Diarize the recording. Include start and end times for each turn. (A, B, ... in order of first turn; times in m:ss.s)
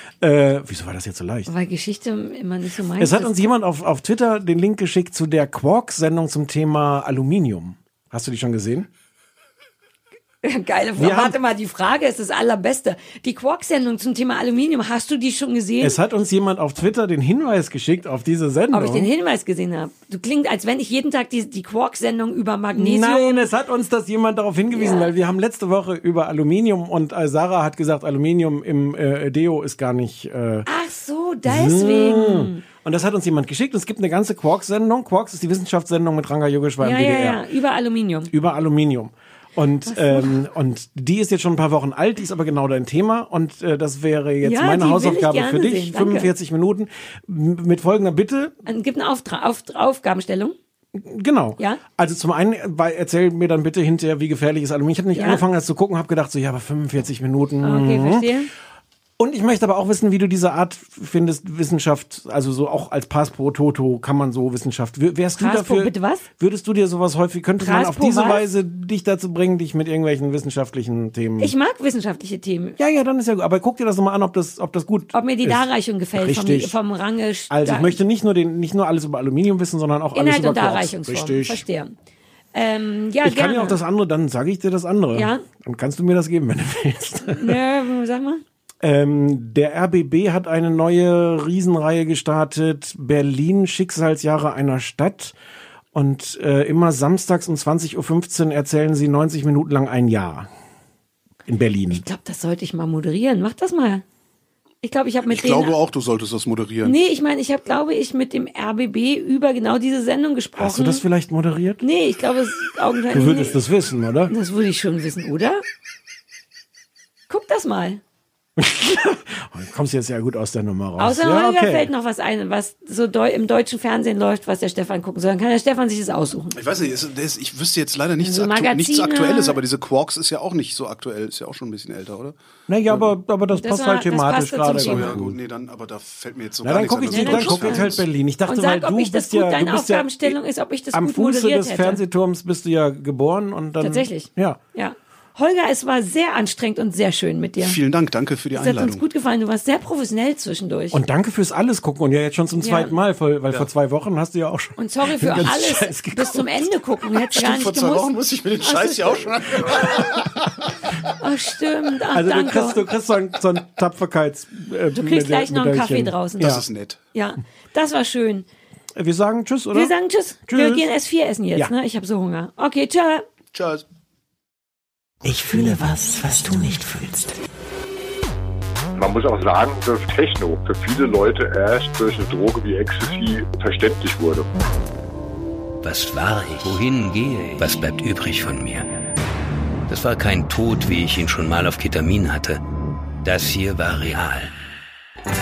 0:00.2-0:01.5 A
0:01.5-0:03.5 B
0:03.0-0:08.9 A
0:10.4-0:16.0 B
0:11.0-0:11.4 A
0:15.8-0:19.1 A
0:18.7-0:23.5 B
0:22.7-0:30.7 A
0:24.7-0:25.1 B
0:30.7-0:32.6 B
0:31.4-0:37.4 A
0:36.8-0:38.3 B
0:38.3-0:48.5 A
0:39.9-0:40.4 B
0:44.4-0:46.3 B
0:48.7-0:50.6 B
0:51.0-0:58.3 A
0:55.2-0:55.4 B
0:57.6-0:58.5 B
0:59.2-1:11.5 A
1:05.4-1:06.2 B
1:07.6-1:08.5 B
1:11.4-1:12.8 B
1:12.8-1:16.8 A
1:15.1-1:18.0 B
1:17.5-1:21.6 A
1:20.1-1:22.0 B
1:22.5-1:23.8 B
1:23.2-1:27.6 A
1:25.2-1:25.4 B
1:27.3-1:28.4 B
1:28.8-1:35.4 A
1:35.9-1:40.5 A
1:41.5-1:42.0 A
1:41.9-1:44.0 B
1:44.8-1:45.8 B
1:45.3-1:47.0 C
1:46.8-1:51.0 B
1:50.6-1:51.8 A
1:51.8-1:53.6 B
1:53.1-1:54.3 A
1:54.3-1:55.6 B
1:57.3-1:58.0 B
1:58.6-2:01.9 A
2:01.0-2:06.6 B
2:06.6-2:12.4 C
2:08.2-2:09.6 B
2:12.7-2:15.4 A
2:13.6-2:15.2 B
2:14.8-2:18.0 C
2:16.6-2:20.4 A
2:17.1-2:22.0 B
2:20.9-2:24.6 A
2:23.8-2:27.8 B
2:27.6-2:29.0 C
2:28.6-2:31.0 B
2:30.9-2:36.8 A
2:32.6-2:32.9 B
2:34.8-2:38.1 B
2:37.4-2:40.4 C
2:38.6-2:39.3 B
2:41.2-2:42.8 B
2:42.1-2:46.6 A
2:45.0-2:46.5 B
2:46.4-2:47.0 C
2:47.1-2:48.5 B
2:49.0-2:49.9 A
2:49.7-2:53.2 B
2:50.5-2:50.9 A
2:53.5-2:53.8 C
2:55.2-2:57.4 D
2:59.0-3:04.5 E
3:05.8-3:08.9 F
3:09.9-3:12.6 F
3:13.2-3:14.5 F